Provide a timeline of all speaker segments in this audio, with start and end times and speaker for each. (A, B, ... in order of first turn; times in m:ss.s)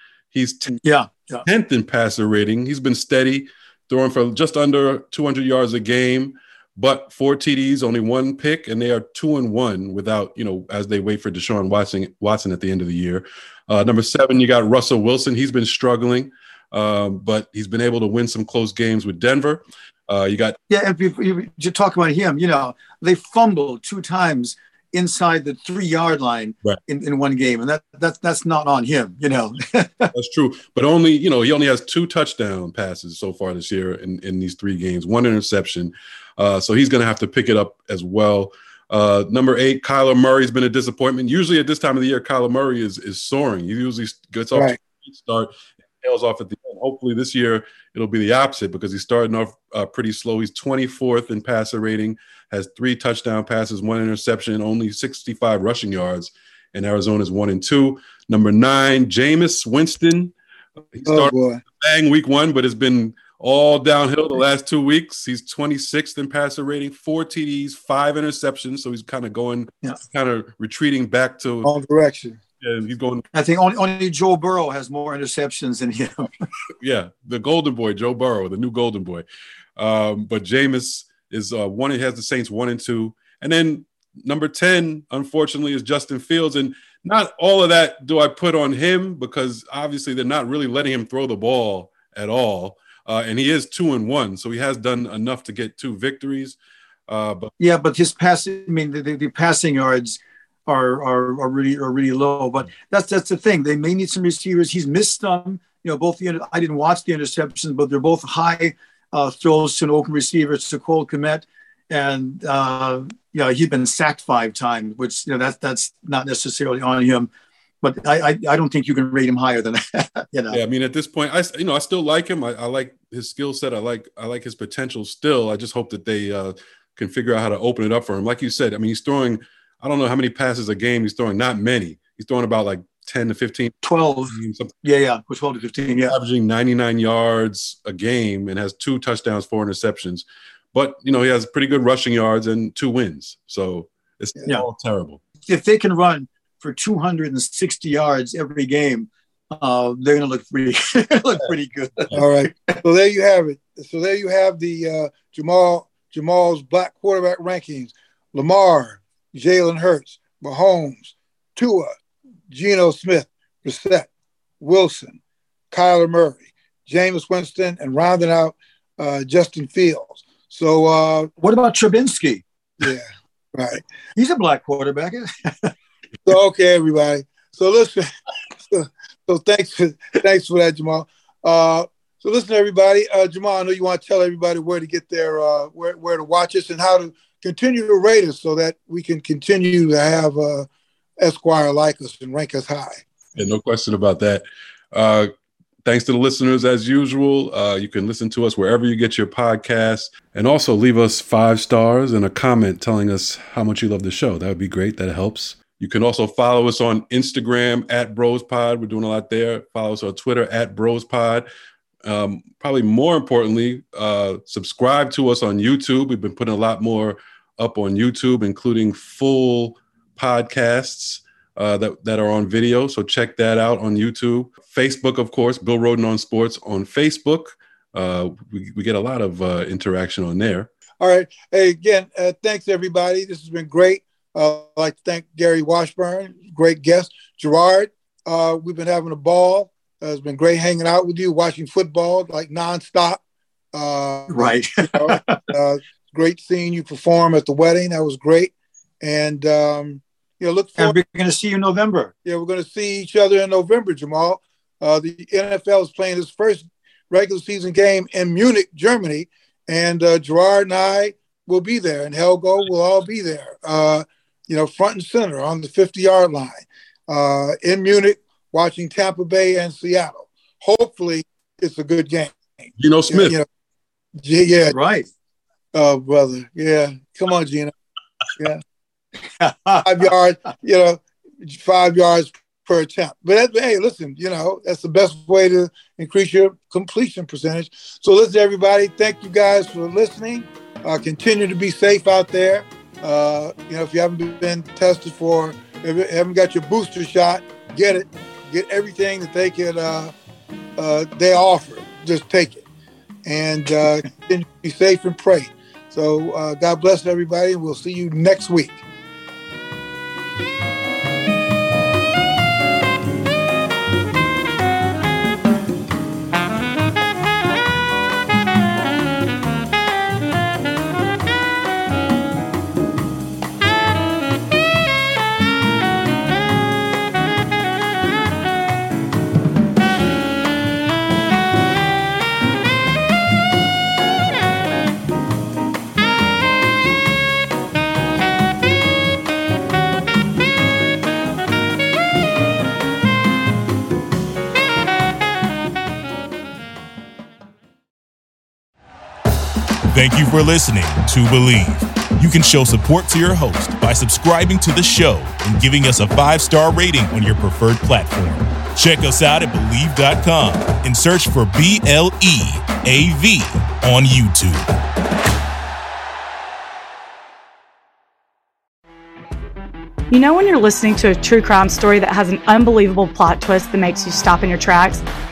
0:00.3-0:00.8 A
0:00.7-0:01.4 B
0:01.4-0:20.6 A
0:20.7-0:30.1 B
0:30.1-1:00.3 A
1:00.9-1:11.7 A
1:01.0-1:01.6 C
1:11.6-1:12.4 C
1:12.6-1:13.2 A
1:13.3-1:16.4 B
1:16.8-1:19.2 A
1:19.8-1:36.6 A
1:37.1-1:37.5 A
1:37.6-1:57.3 B
1:57.8-2:00.6 B
2:00.5-2:14.7 A
2:13.8-2:16.1 B
2:16.1-2:25.2 A
2:25.5-2:32.8 B
2:32.1-2:41.9 C
2:42.5-2:44.1 C
2:44.6-2:45.2 C
2:45.7-2:51.3 C
2:51.4-2:52.4 B
2:52.8-2:53.8 C
2:54.2-2:55.7 B
2:56.2-2:58.1 C
2:58.6-3:10.7 C
3:11.2-3:13.0 C
3:13.4-3:15.3 A
3:15.8-3:31.4 A
3:32.0-3:50.7 A
3:51.0-4:03.2 C
4:03.7-4:11.0 C
4:04.3-4:05.4 B
4:10.8-4:12.1 B
4:12.2-4:33.4 C
4:32.8-4:33.3 A
4:34.2-4:34.7 C
4:34.7-4:35.1 B
4:35.7-4:37.7 C
4:38.4-4:38.6 C
4:39.4-4:39.8 B
4:39.8-5:00.1 C
5:00.8-5:02.6 C
5:03.2-5:08.8 C
5:49.9-6:04.7 D
6:10.1-6:15.0 E